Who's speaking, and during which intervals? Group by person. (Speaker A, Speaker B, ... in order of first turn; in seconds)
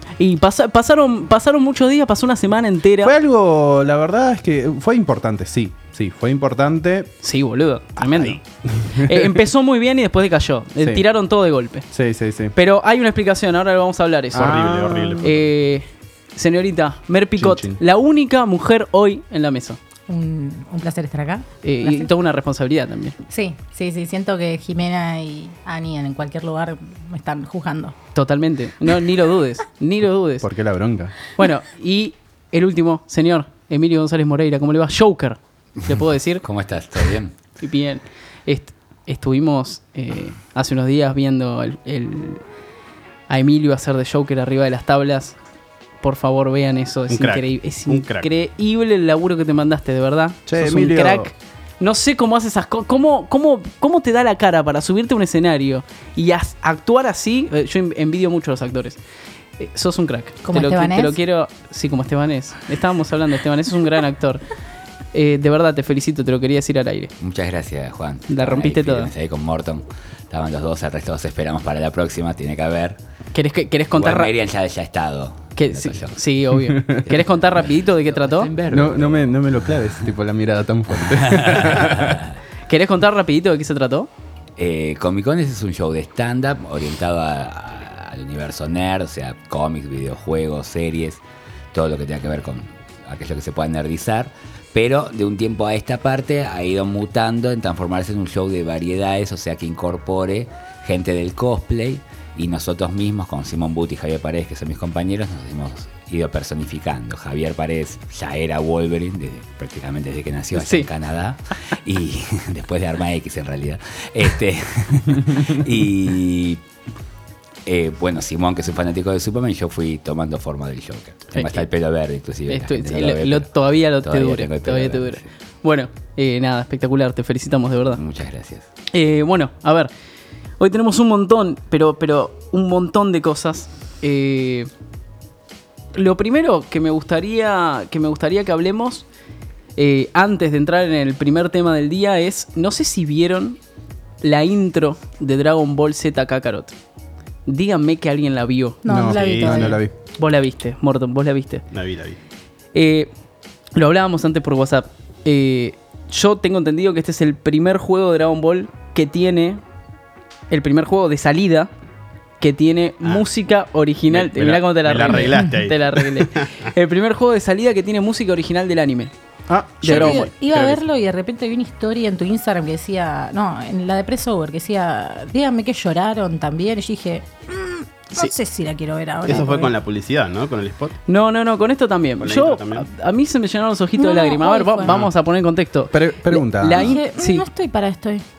Speaker A: 0.2-3.1, 7.2-11.9, 12.5-14.6, 15.2-19.8, 21.6-23.1, 28.1-30.5, 31.4-36.5, 37.6-42.4, 43.3-45.4, 46.0-59.0, 59.6-64.4, 65.1-67.1, 68.3-69.1, 73.3-74.3, 75.6-78.5, 82.7-84.1, 110.5-110.9, 121.3-121.6, 122.5-128.0, 128.9-129.9, 130.6-134.7, 135.9-139.1, 139.8-143.6, 144.2-146.8, 147.5-148.8, 150.2-151.6, 152.7-153.1, 153.7-159.6, 160.5-161.7, 162.4-169.1, 169.8-170.8, 181.1-187.5
Speaker B: 3.0-7.1, 8.0-9.3, 11.9-12.5, 14.3-15.3, 17.4-17.8, 30.4-31.2, 50.5-51.3, 78.7-82.2, 148.9-149.9, 169.5-170.3, 184.8-185.1, 185.9-186.9
Speaker C: 14.3-15.3, 47.1-48.3, 149.1-149.8, 151.7-152.2, 164.1-166.7, 179.2-181.0, 182.2-182.9
Speaker D: 20.1-22.1, 23.3-27.9, 60.4-61.2, 148.8-149.8, 165.3-165.6, 169.8-179.7, 184.0-184.9, 186.8-188.2
Speaker E: 36.4-37.3, 67.2-73.0, 73.9-76.2, 77.1-79.7, 81.1-82.2, 84.6-116.6, 117.7-125.3, 127.9-128.7